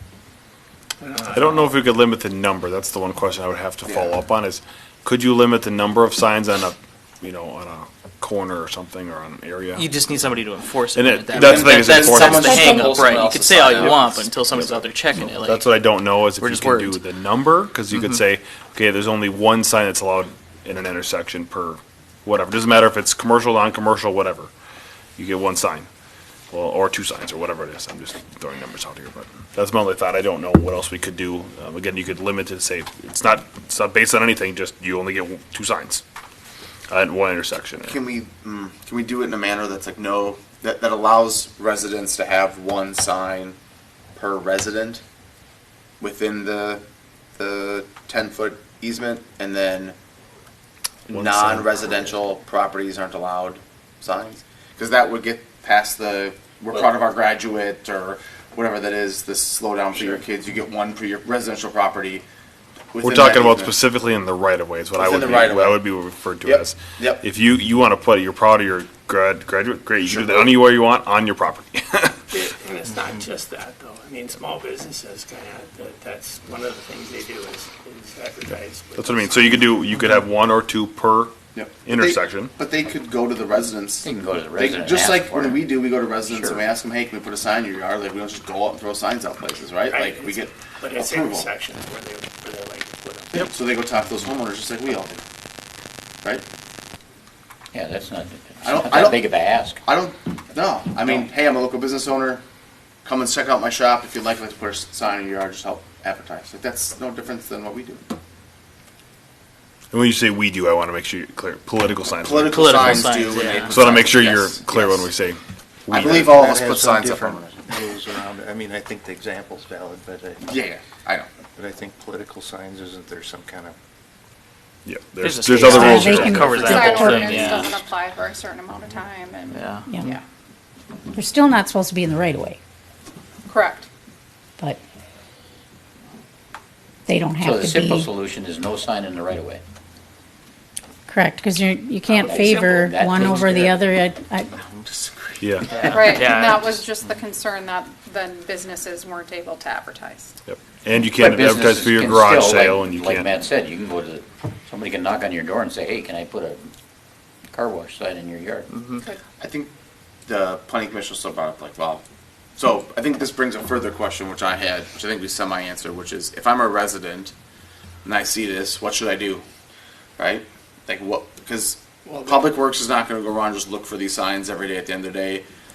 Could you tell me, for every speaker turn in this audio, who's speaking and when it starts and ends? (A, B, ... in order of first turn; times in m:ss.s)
0:01.0-0:01.5 A
0:01.3-0:09.9 B
0:03.8-0:04.2 C
0:09.8-0:15.7 D
0:10.9-0:13.0 B
0:11.3-0:14.3 C
0:12.4-0:12.9 E
0:14.5-0:24.5 B
0:16.4-0:17.0 D
0:25.2-0:25.9 B
0:26.5-0:36.0 B
0:36.9-0:38.0 B
0:37.8-0:43.6 C
0:44.2-0:45.0 C
0:46.0-0:46.8 C
0:47.4-0:50.0 C
0:51.1-1:02.2 C
0:51.1-0:52.1 B
1:02.9-1:03.8 C
1:03.0-1:12.2 B
1:05.0-1:05.8 C
1:06.4-1:07.2 C
1:10.0-1:10.6 C
1:12.3-1:19.4 A
1:19.0-1:22.6 B
1:21.5-1:31.5 C
1:24.0-1:26.6 F
1:29.9-1:33.4 A
1:33.3-1:35.2 C
1:37.7-1:39.8 F
1:38.6-1:42.4 C
1:43.0-1:48.0 C
1:49.9-1:56.3 B
1:52.2-1:55.1 C
1:52.5-1:53.8 D
1:55.9-1:57.6 C
1:55.9-2:00.6 G
2:00.4-2:01.3 C
2:01.6-2:03.7 G
2:04.8-2:07.5 B
2:05.2-2:07.8 D
2:05.6-2:07.4 E
2:06.4-2:07.8 A
2:06.7-2:09.5 H
2:09.5-2:09.8 D
2:09.9-2:10.1 E
2:11.1-2:12.6 E
2:13.5-2:13.8 H
2:17.0-2:18.1 E
2:17.4-2:19.6 F
2:21.1-2:24.5 E
2:22.2-2:23.6 F
2:23.4-2:23.8 G
2:24.6-2:26.0 G
2:25.4-2:26.2 B
2:25.7-2:26.8 D
2:25.9-2:27.1 A
2:26.0-2:30.3 H
2:30.5-2:33.3 B
2:31.1-2:36.7 F
2:37.5-2:38.7 F
2:38.7-2:39.0 D
2:39.4-2:39.7 C
2:40.2-2:42.0 C
2:42.6-2:47.3 C
2:48.0-2:49.4 C
2:50.2-2:55.4 C
2:52.0-2:52.5 A